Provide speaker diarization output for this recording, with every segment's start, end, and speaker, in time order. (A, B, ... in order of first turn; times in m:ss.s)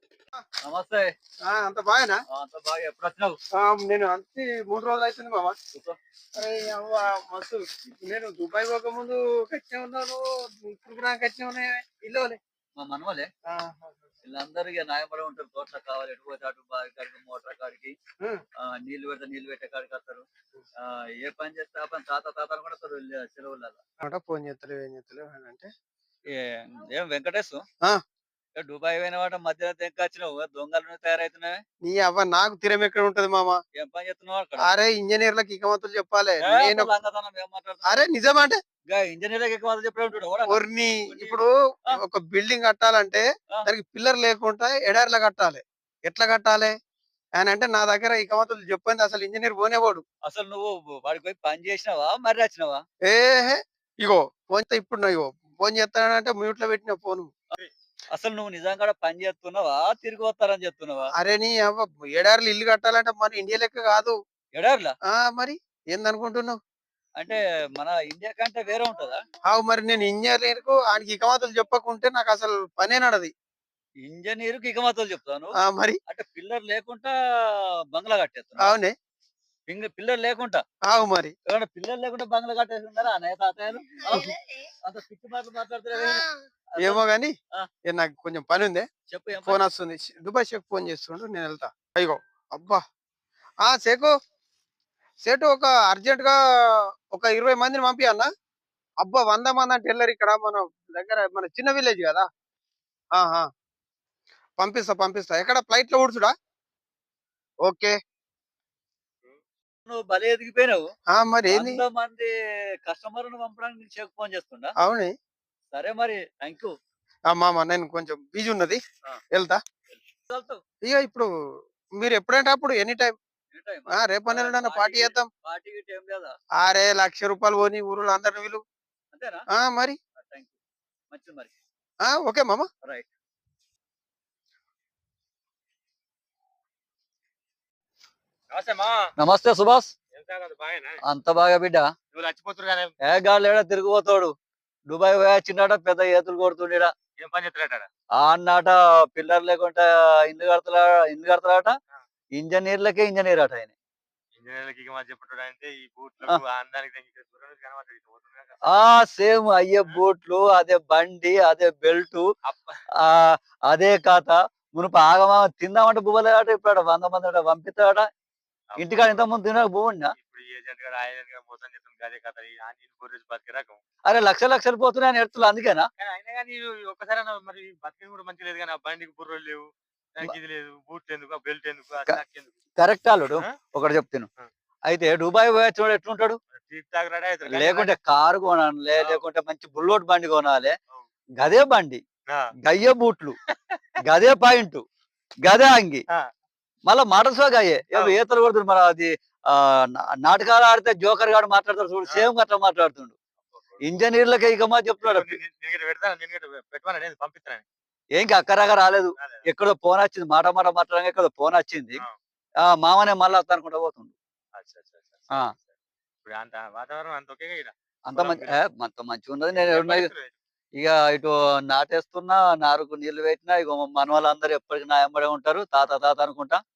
0:00.6-0:01.1 A
0:01.5-0:02.2 B
0:02.3-0:03.4 A
0:03.5-0:05.6 B
0:05.7-0:06.0 A
0:06.4-0:12.4 B
0:12.8-0:13.3 A
0:13.5-0:14.0 B
0:14.2-0:17.9 A
0:18.6-0:20.2 A
0:20.8-0:23.8 A
0:24.0-0:25.7 B
0:26.3-0:27.6 A
0:28.6-0:31.6 A
0:31.8-0:33.6 B
0:33.8-0:34.7 A
0:34.6-0:36.9 B
0:36.4-0:38.0 A
0:37.8-0:38.6 B
0:38.9-0:41.3 A
0:40.5-0:46.7 B
0:47.4-0:50.0 B
0:50.2-0:52.8 A
0:53.0-0:57.3 B
0:58.1-1:01.0 A
1:01.2-1:04.1 B
1:04.5-1:04.9 A
1:05.1-1:06.6 B
1:07.2-1:09.2 A
1:09.4-1:13.3 B
1:14.0-1:15.5 A
1:15.6-1:16.0 B
1:16.1-1:18.7 A
1:18.6-1:18.9 B
1:19.7-1:20.6 A
1:20.9-1:21.3 B
1:21.5-1:24.3 A
1:24.8-1:26.2 A
1:25.9-1:27.3 B
1:26.7-1:27.0 A
1:27.8-1:28.8 B
1:29.1-1:29.6 A
1:29.4-1:32.8 B
1:33.6-1:34.1 B
1:35.2-1:36.4 B
1:37.1-1:38.3 B
1:39.0-1:42.3 B
1:43.1-1:43.5 B
1:44.6-1:46.3 B
1:47.6-1:47.9 B
1:49.8-1:50.8 A
1:51.1-1:51.8 B
1:51.5-1:52.3 A
1:52.8-1:54.7 A
1:54.8-1:55.1 B
1:55.7-1:56.7 A
1:57.3-1:58.8 B
1:59.3-1:59.6 B
1:59.9-2:00.6 A
2:00.8-2:01.3 B
2:02.0-2:03.1 B
2:03.5-2:06.4 A
2:03.9-2:05.3 B
2:06.6-2:08.6 B
2:09.1-2:09.4 A
2:09.5-2:10.0 B
2:10.2-2:10.6 A
2:11.1-2:11.5 A
2:12.0-2:12.7 B
2:12.8-2:13.1 A
2:18.5-2:19.1 C
2:19.2-2:19.9 A
2:20.1-2:21.0 C
2:21.0-2:21.9 A
2:22.1-2:22.9 C
2:23.0-2:24.3 A
2:24.9-2:26.9 A
2:27.2-2:27.9 C
2:28.2-2:31.7 A
2:32.4-2:33.7 A
2:34.3-2:38.6 C
2:38.7-2:42.2 A
2:42.4-2:42.8 C
2:43.0-2:48.1 A
2:48.7-2:49.2 C
2:48.8-2:50.1 A
2:50.2-2:53.8 C
2:54.1-2:55.8 A
2:56.0-3:02.6 C
3:02.8-3:04.3 A
3:04.9-3:06.4 A
3:06.5-3:07.9 C
3:07.5-3:10.7 A
3:09.0-3:09.2 C
3:11.4-3:12.0 A
3:12.6-3:13.4 A
3:13.5-3:13.8 C
3:14.1-3:14.8 A
3:15.4-3:16.0 A
3:16.9-3:23.2 A
3:23.5-3:23.8 C
3:23.8-3:25.4 A
3:25.0-3:27.6 C
3:28.2-3:32.0 A
3:29.2-3:29.4 C
3:32.6-3:34.1 A
3:34.5-3:38.6 C
3:38.1-3:40.1 A
3:39.5-3:40.4 C
3:40.8-3:46.6 A